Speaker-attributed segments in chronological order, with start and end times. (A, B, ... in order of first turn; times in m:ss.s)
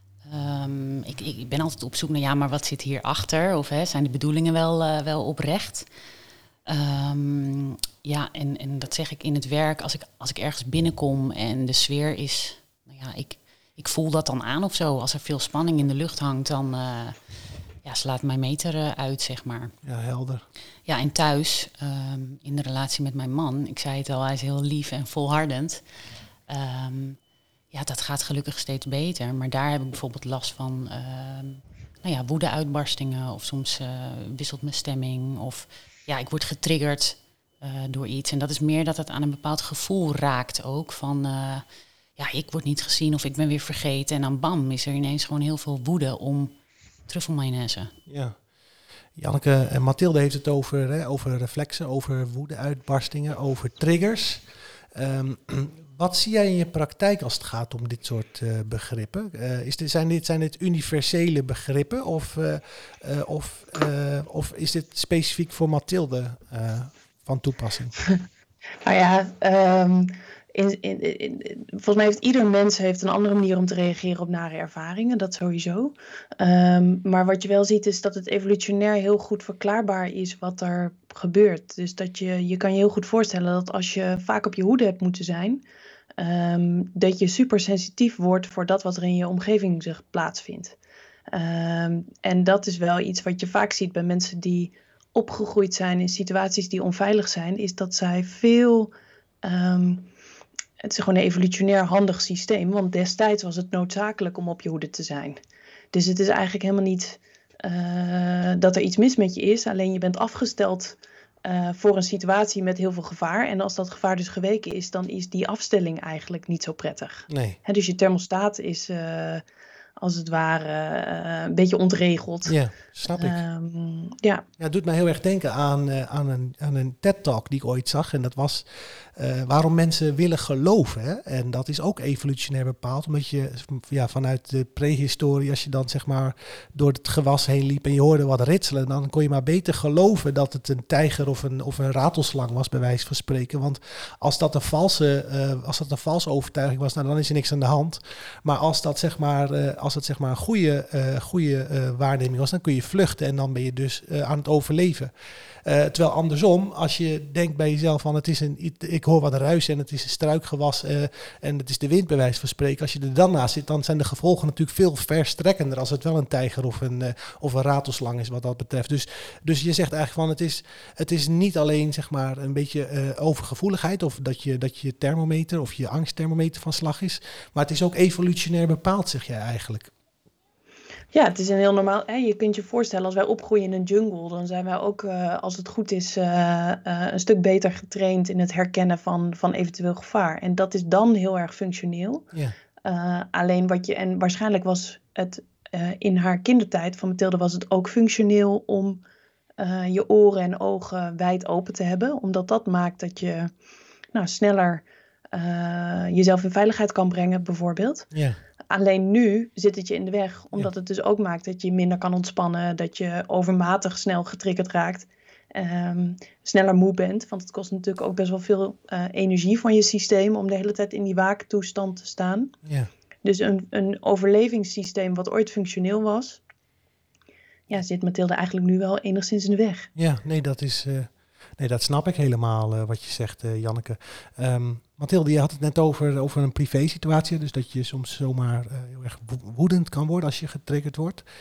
0:00.2-0:05.9 A
0:06.7-0:19.8 A
0:19.8-0:20.4 B
0:20.9-0:25.8 A
0:26.5-0:27.2 A
0:27.7-0:41.6 A
0:42.2-0:46.5 A
0:47.1-0:48.0 A
0:48.1-0:48.4 B
0:49.2-0:54.4 B
0:55.0-1:08.0 B
1:08.8-1:25.6 C
1:26.2-1:30.8 C
1:31.3-1:40.1 C
1:40.8-1:45.4 C
1:45.9-1:59.4 C
1:57.3-1:57.6 B
2:00.0-2:02.6 C
2:02.5-2:03.4 B
2:03.1-2:04.4 C
2:04.6-2:35.1 B
2:35.6-2:59.9 B
3:01.1-3:12.3 C
3:12.8-3:19.0 C
3:19.6-3:23.5 C
3:24.1-3:28.1 C
3:28.1-3:28.4 B
3:28.7-3:42.5 C
3:42.6-3:42.9 B
3:43.2-3:46.4 C
3:47.7-3:49.9 C
3:50.0-4:01.2 B